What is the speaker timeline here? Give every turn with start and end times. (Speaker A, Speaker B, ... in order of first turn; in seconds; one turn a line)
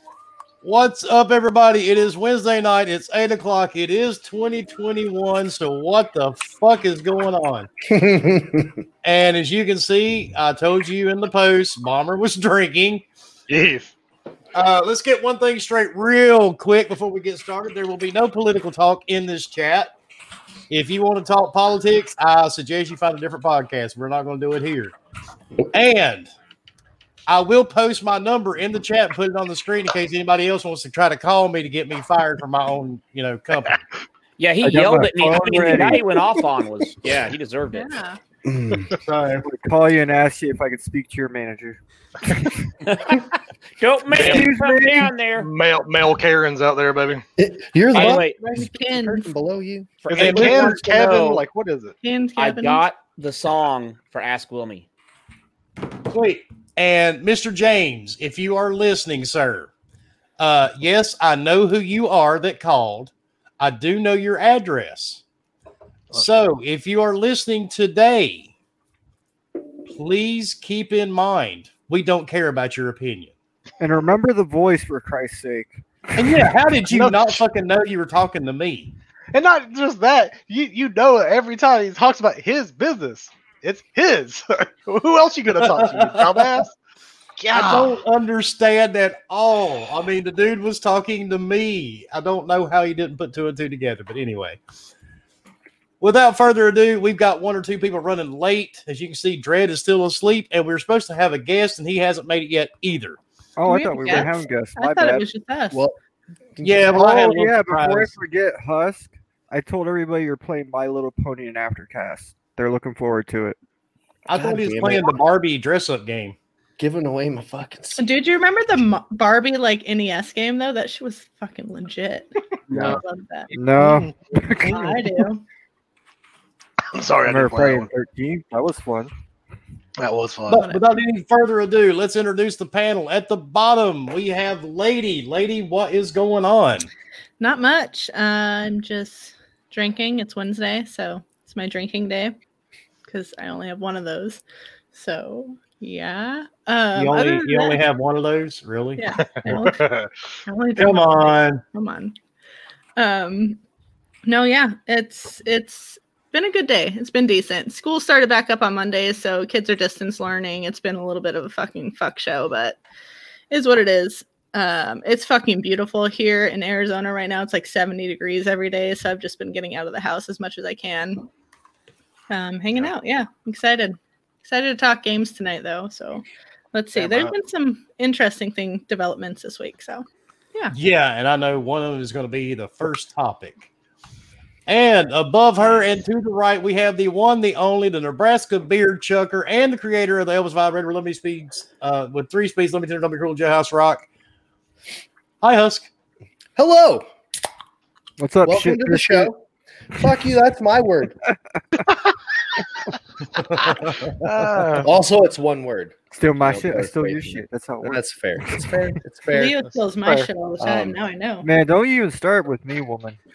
Speaker A: 0.6-7.7
Speaker B: 7.8-8.8
Speaker A: 9.0-13.0
Speaker C: 13.5-13.9
Speaker A: 14.5-19.9
Speaker A: 20.7-24.9
Speaker A: 25.7-26.3
Speaker A: 27.3-33.8
Speaker D: 34.4-37.9
Speaker E: 34.6-36.2
Speaker F: 37.7-38.2
Speaker B: 38.4-39.0
Speaker E: 39.4-42.5
Speaker D: 42.8-43.3
Speaker D: 43.8-45.5
Speaker C: 44.1-44.5
Speaker E: 44.1-45.1
Speaker C: 45.4-47.2
Speaker B: 47.4-50.0
Speaker D: 47.9-48.4
Speaker F: 48.0-49.3
Speaker D: 50.0-51.4
Speaker C: 50.1-51.9
Speaker A: 50.2-50.8
Speaker F: 52.0-52.8
Speaker D: 52.4-54.9
Speaker A: 56.1-59.7
Speaker A: 60.4-65.2
Speaker A: 66.1-68.5
Speaker C: 66.1-66.5
Speaker A: 69.9-73.3
Speaker E: 73.8-75.8
Speaker A: 76.2-78.9
Speaker C: 76.9-77.4
Speaker C: 79.3-86.7
Speaker A: 85.6-86.5
Speaker C: 87.4-88.0
Speaker A: 87.5-94.6
Speaker A: 96.0-103.2
Speaker E: 103.6-105.3
Speaker F: 103.7-105.8
Speaker B: 105.7-106.0
Speaker B: 106.6-106.9
Speaker A: 106.6-108.1
Speaker E: 106.9-113.5
Speaker A: 114.3-116.3
Speaker B: 114.3-115.2
Speaker B: 116.8-118.0
Speaker F: 118.0-123.5
Speaker E: 123.5-125.2
Speaker F: 124.6-125.4
Speaker C: 126.9-127.9
Speaker E: 127.2-129.1
Speaker C: 130.0-130.6
Speaker A: 130.5-136.9
Speaker F: 130.5-130.8
Speaker F: 137.4-142.3
Speaker F: 143.1-144.4
Speaker F: 144.9-147.8
Speaker A: 146.9-149.0
Speaker F: 149.0-149.8
Speaker C: 149.4-150.1
Speaker F: 150.4-152.1
Speaker A: 150.8-151.6
Speaker F: 153.0-153.6
Speaker F: 154.2-162.8
Speaker F: 163.5-171.2
Speaker F: 172.3-180.7
Speaker C: 176.9-177.3
Speaker A: 180.7-183.7
Speaker A: 184.7-194.0
Speaker A: 195.4-195.9
Speaker B: 196.6-197.1
Speaker E: 198.2-199.3
Speaker B: 198.4-199.4
Speaker B: 199.9-201.2
Speaker C: 204.2-204.9
Speaker B: 204.8-209.6
Speaker E: 206.1-208.7
Speaker F: 209.3-211.5
Speaker B: 210.6-211.0
Speaker E: 211.4-213.2